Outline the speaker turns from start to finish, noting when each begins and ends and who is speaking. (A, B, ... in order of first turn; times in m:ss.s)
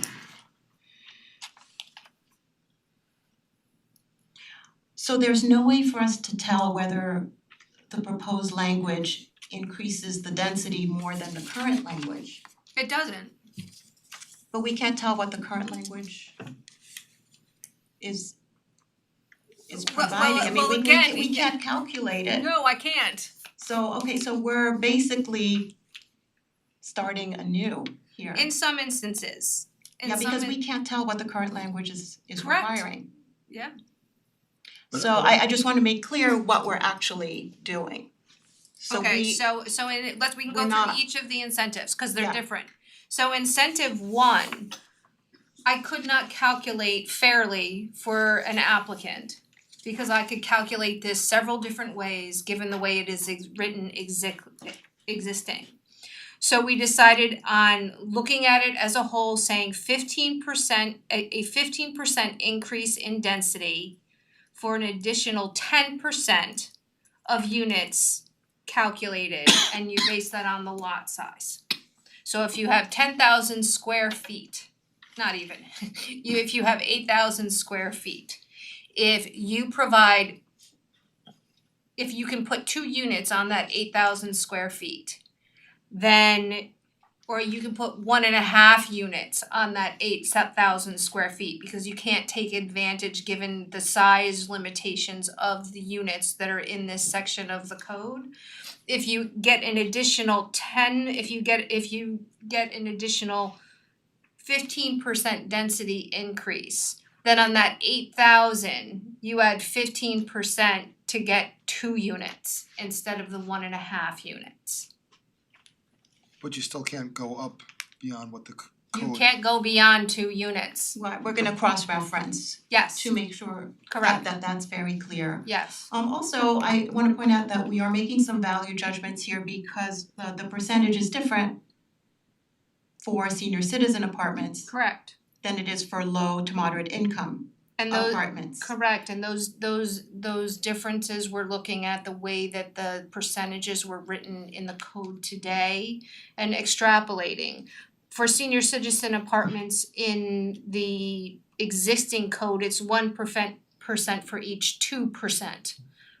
0:05.0-0:07.3 A
0:07.9-0:12.4 A
0:12.8-0:13.3 B
0:14.5-0:16.4 A
0:18.0-0:18.4 A
0:19.7-0:22.4 A
0:19.7-0:21.5 B
0:22.3-0:23.3 B
0:23.6-0:25.7 A
0:26.8-0:28.5 A
0:28.3-0:30.6 B
0:30.0-0:33.1 A
0:32.4-0:32.8 B
0:34.9-0:38.1 A
0:38.8-0:39.4 A
0:38.9-0:44.7 B
0:40.5-0:41.0 A
0:45.6-0:55.7 B
0:56.4-1:04.0 B
1:04.5-1:06.7 B
1:07.3-1:11.6 B
1:12.2-1:18.4 B
1:18.9-1:20.4 B
1:22.0-1:25.2 B
1:25.9-1:26.7 B
1:27.3-1:38.3 B
1:38.9-1:43.6 B
1:44.4-1:54.9 B
1:56.4-1:59.2 C
1:58.9-2:01.0 B
2:00.9-2:11.6 A
2:02.7-2:03.1 B
2:03.9-2:04.2 B
2:05.4-2:05.9 B
2:13.0-2:14.7 A
2:14.7-2:15.1 B
2:15.4-2:18.7 A
2:17.8-2:35.8 B